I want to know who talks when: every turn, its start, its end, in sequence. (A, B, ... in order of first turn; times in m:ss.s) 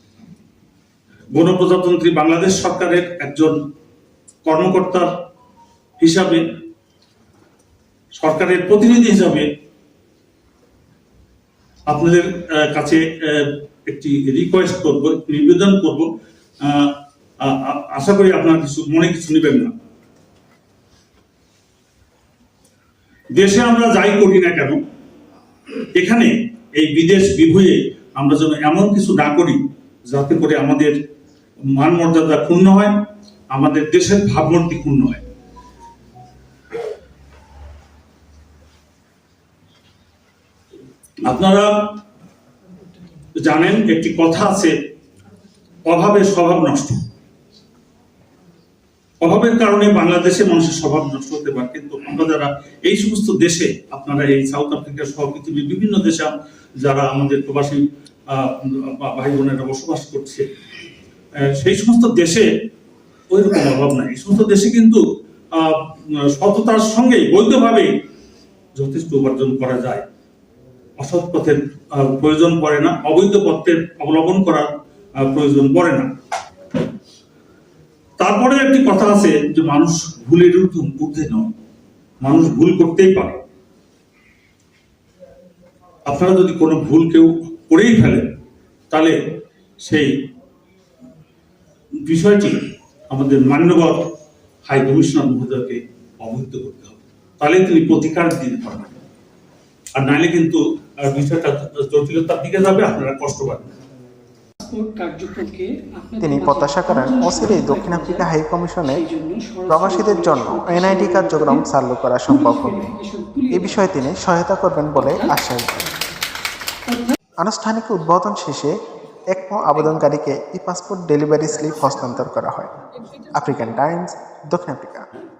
0:01.3-0:03.6 A
0:04.4-0:05.1 A
0:06.0-0:06.4 A
0:08.2-0:09.5 A
0:11.9-0:16.1 A
0:16.6-0:19.7 A
0:23.3-0:24.8 A
0:26.0-0:29.6 A
0:30.1-0:30.9 A
0:31.8-0:32.9 A
0:33.5-0:35.2 A
0:41.2-0:41.7 A
0:43.4-0:44.7 A
0:45.9-0:47.0 A
0:49.2-1:00.5 A
1:01.6-1:02.5 A
1:03.3-1:05.0 A
1:05.6-1:07.9 A
1:08.8-1:10.0 A
1:11.0-1:14.7 A
1:15.2-1:16.0 A
1:18.2-1:21.5 A
1:22.2-1:23.4 A
1:26.1-1:28.2 A
1:29.8-1:30.1 A
1:32.1-1:34.0 A
1:34.6-1:39.0 A
1:40.0-1:43.7 A
1:44.6-1:48.3 B
1:46.2-1:49.0 C
1:48.8-1:51.7 B
1:49.7-1:52.9 C
1:52.3-1:54.0 B
1:53.5-1:55.9 C
1:55.0-1:55.4 B
1:56.9-1:57.2 B
1:57.4-1:58.7 C
1:59.3-2:02.7 C
2:03.3-2:05.1 C